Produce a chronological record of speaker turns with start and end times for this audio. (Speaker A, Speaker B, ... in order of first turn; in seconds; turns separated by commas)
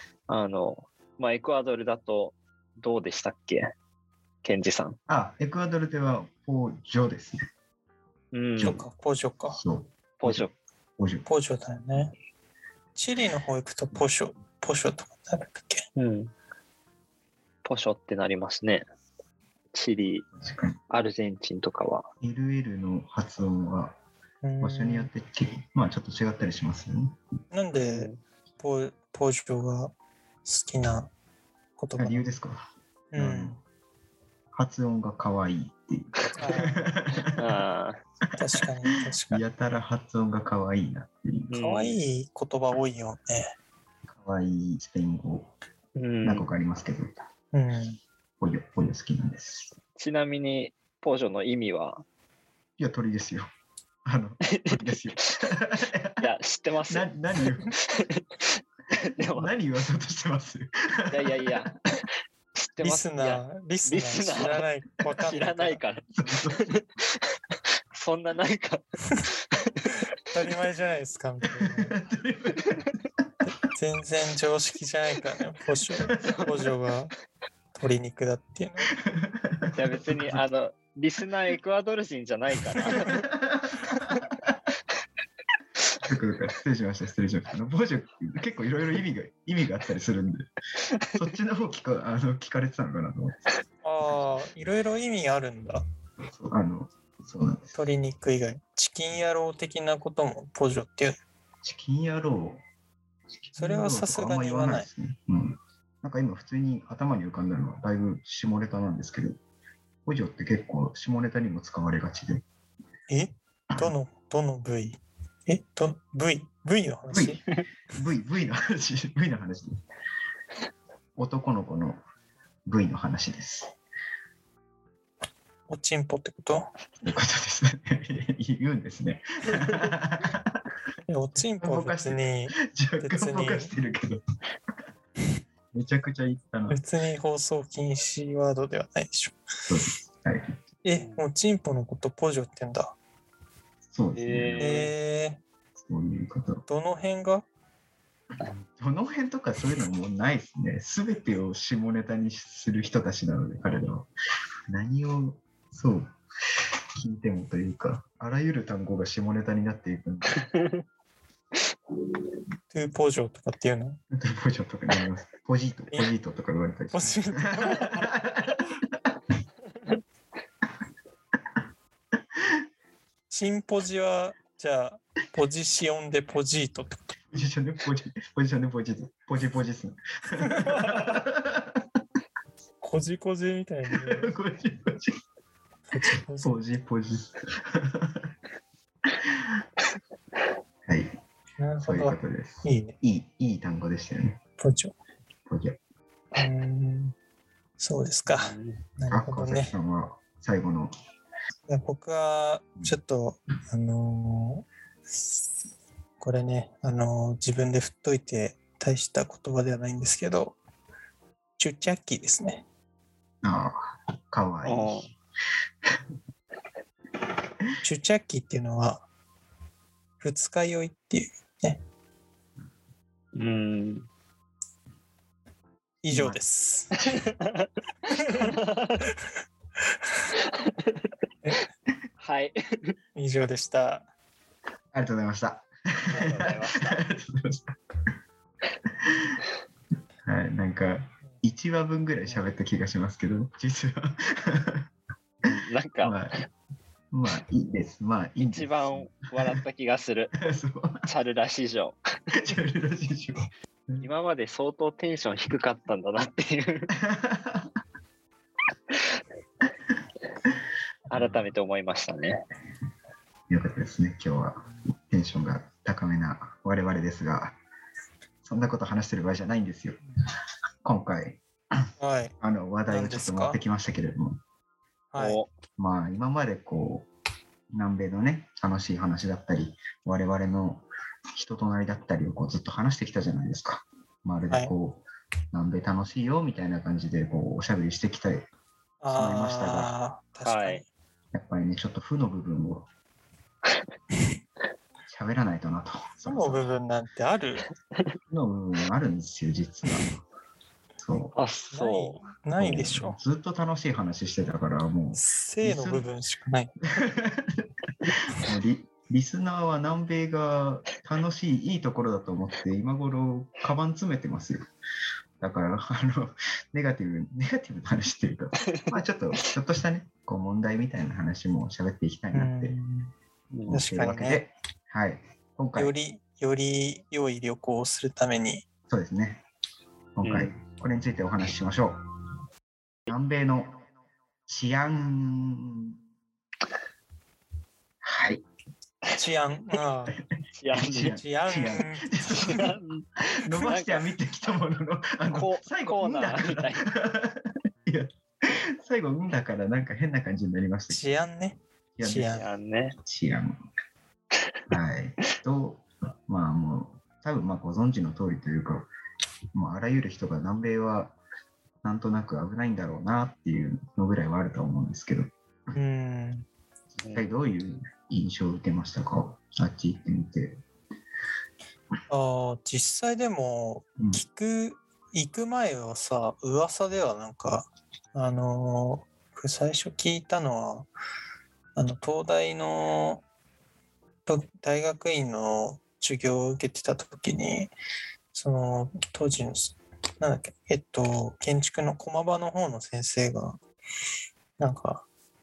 Speaker A: 0.3-3.7, Speaker A: 4.4-5.0, Speaker B: 5.1-7.4, Speaker A: 8.3-8.8, Speaker B: 8.6-8.8, Speaker C: 8.6-9.6, Speaker B: 9.5-10.4, Speaker A: 10.2-10.5, Speaker B: 11.0-11.3, Speaker C: 11.2-12.1, Speaker C: 12.9-15.8, Speaker A: 15.9-16.3, Speaker A: 17.6-18.8, Speaker A: 19.7-20.3, Speaker B: 20.4-20.8, Speaker A: 20.9-22.1, Speaker B: 22.2-23.9, Speaker C: 24.4-25.1, Speaker B: 24.6-27.1, Speaker C: 27.5-29.9, Speaker A: 27.8-28.2, Speaker C: 30.4-31.1, Speaker C: 31.8-32.2, Speaker B: 32.0-32.6, Speaker C: 33.1-33.6, Speaker B: 33.1-33.6, Speaker B: 34.5-37.6, Speaker C: 36.4-36.9, Speaker A: 37.4-38.0, Speaker C: 38.4-39.4, Speaker B: 39.3-41.5, Speaker A: 41.5-42.0, Speaker C: 41.5-43.5, Speaker B: 44.1-45.5, Speaker A: 46.0-46.5, Speaker B: 46.2-47.1, Speaker C: 47.5-48.0, Speaker B: 48.4-49.7, Speaker A: 50.0-52.0, Speaker B: 52.8-53.5, Speaker B: 54.0-56.2, Speaker A: 54.5-55.5, Speaker A: 56.2-59.5, Speaker B: 56.9-57.7, Speaker B: 59.3-61.7, Speaker A: 61.1-61.8, Speaker A: 62.5-64.6, Speaker C: 62.8-65.8, Speaker A: 65.2-66.0, Speaker B: 66.1-66.7, Speaker A: 66.6-67.2, Speaker A: 67.9-69.9, Speaker C: 70.3-72.0, Speaker B: 71.7-72.8, Speaker C: 73.7-77.1, Speaker B: 76.1-76.5, Speaker A: 76.2-76.5, Speaker C: 77.8-78.9, Speaker B: 79.0-80.4, Speaker A: 79.7-83.3, Speaker B: 83.2-84.5, Speaker B: 86.0-90.5, Speaker B: 91.1-93.4, Speaker C: 93.8-95.8, Speaker B: 94.0-94.3, Speaker B: 96.3-97.8, Speaker C: 97.7-101.2, Speaker B: 101.6-102.6, Speaker B: 103.4-109.4, Speaker C: 103.5-104.9, Speaker B: 110.0-112.5, Speaker C: 113.1-117.4, Speaker B: 117.1-119.8, Speaker B: 121.2-122.0, Speaker B: 122.7-123.7, Speaker C: 125.7-126.6, Speaker B: 127.0-130.6, Speaker C: 131.1-133.7, Speaker B: 131.6-134.2, Speaker B: 135.7-136.8, Speaker C: 136.7-139.4, Speaker B: 139.7-140.5, Speaker C: 140.8-142.9, Speaker A: 140.9-141.2, Speaker B: 143.9-144.8, Speaker A: 144.1-144.9, Speaker C: 144.6-145.4, Speaker B: 145.8-146.7, Speaker C: 146.7-147.4, Speaker B: 148.5-154.1, Speaker B: 154.7-156.2, Speaker B: 157.0-160.4, Speaker A: 160.3-160.8, Speaker C: 162.7-164.0, Speaker B: 164.1-168.7, Speaker C: 166.9-168.1, Speaker C: 173.3-177.2, Speaker B: 177.3-181.8, Speaker C: 180.4-181.0, Speaker C: 182.8-184.3, Speaker B: 184.0-185.2, Speaker C: 185.9-186.6, Speaker B: 186.4-188.3, Speaker B: 189.2-189.6, Speaker C: 191.6-192.9, Speaker B: 191.8-194.4, Speaker C: 194.6-194.9, Speaker B: 195.5-195.8, Speaker C: 196.4-197.1, Speaker C: 197.8-199.7, Speaker A: 198.2-198.8, Speaker B: 199.1-200.9, Speaker C: 201.7-204.6, Speaker C: 206.2-210.6, Speaker C: 211.6-212.6, Speaker B: 213.4-215.1, Speaker A: 214.6-215.1, Speaker C: 217.8-219.0, Speaker C: 220.2-221.8, Speaker A: 223.3-224.1, Speaker C: 226.0-227.0, Speaker B: 226.1-226.4, Speaker A: 227.1-227.7, Speaker C: 228.1-228.5, Speaker A: 228.4-229.0, Speaker A: 230.4-231.0, Speaker A: 232.2-232.9, Speaker C: 233.2-234.0, Speaker B: 234.9-237.7, Speaker A: 236.1-236.9, Speaker B: 239.1-239.4, Speaker B: 240.2-244.8, Speaker A: 245.4-246.2, Speaker B: 246.0-246.4, Speaker B: 247.1-249.6, Speaker A: 248.4-250.3, Speaker B: 250.4-251.1, Speaker A: 251.1-251.9, Speaker B: 252.3-254.1, Speaker A: 254.0-256.9, Speaker B: 257.0-257.7, Speaker A: 261.1-262.4, Speaker B: 261.1-261.5, Speaker B: 263.5-267.6, Speaker B: 268.4-270.0, Speaker B: 270.8-271.4, Speaker C: 272.0-272.3, Speaker B: 272.4-274.4, Speaker C: 272.9-273.6, Speaker C: 275.1-275.4, Speaker A: 275.2-275.5, Speaker B: 275.8-277.1, Speaker B: 277.7-288.5, Speaker C: 289.0-290.9, Speaker B: 289.1-289.9, Speaker A: 290.4-290.8, Speaker B: 291.3-292.9, Speaker B: 295.1-296.7, Speaker C: 296.2-297.6, Speaker B: 298.3-300.2, Speaker B: 301.0-301.3, Speaker A: 301.3-302.2, Speaker C: 301.7-303.2, Speaker B: 302.6-306.1, Speaker C: 305.1-306.7, Speaker B: 306.9-314.7, Speaker B: 315.4-322.8, Speaker C: 322.3-323.1, Speaker A: 323.5-323.8, Speaker B: 323.7-325.9, Speaker C: 323.7-324.4, Speaker C: 325.8-328.6, Speaker B: 328.9-329.4, Speaker B: 330.1-332.0, Speaker A: 330.2-330.5, Speaker B: 333.1-333.8, Speaker B: 334.5-335.9, Speaker B: 338.0-338.4, Speaker C: 339.2-340.1, Speaker A: 340.6-341.2, Speaker B: 340.7-342.7, Speaker C: 341.1-342.6, Speaker A: 342.4-344.0, Speaker B: 343.3-351.1, Speaker A: 345.3-346.8, Speaker C: 350.9-352.5, Speaker B: 352.0-352.4, Speaker A: 352.3-353.0, Speaker B: 353.1-353.6, Speaker B: 354.7-358.9, Speaker B: 359.5-361.2, Speaker B: 361.8-365.7, Speaker C: 365.7-366.4, Speaker B: 366.9-370.6, Speaker A: 367.0-367.3, Speaker C: 372.1-380.9, Speaker C: 381.7-383.2, Speaker C: 384.2-387.7, Speaker C: 388.3-393.6, Speaker C: 394.6-395.0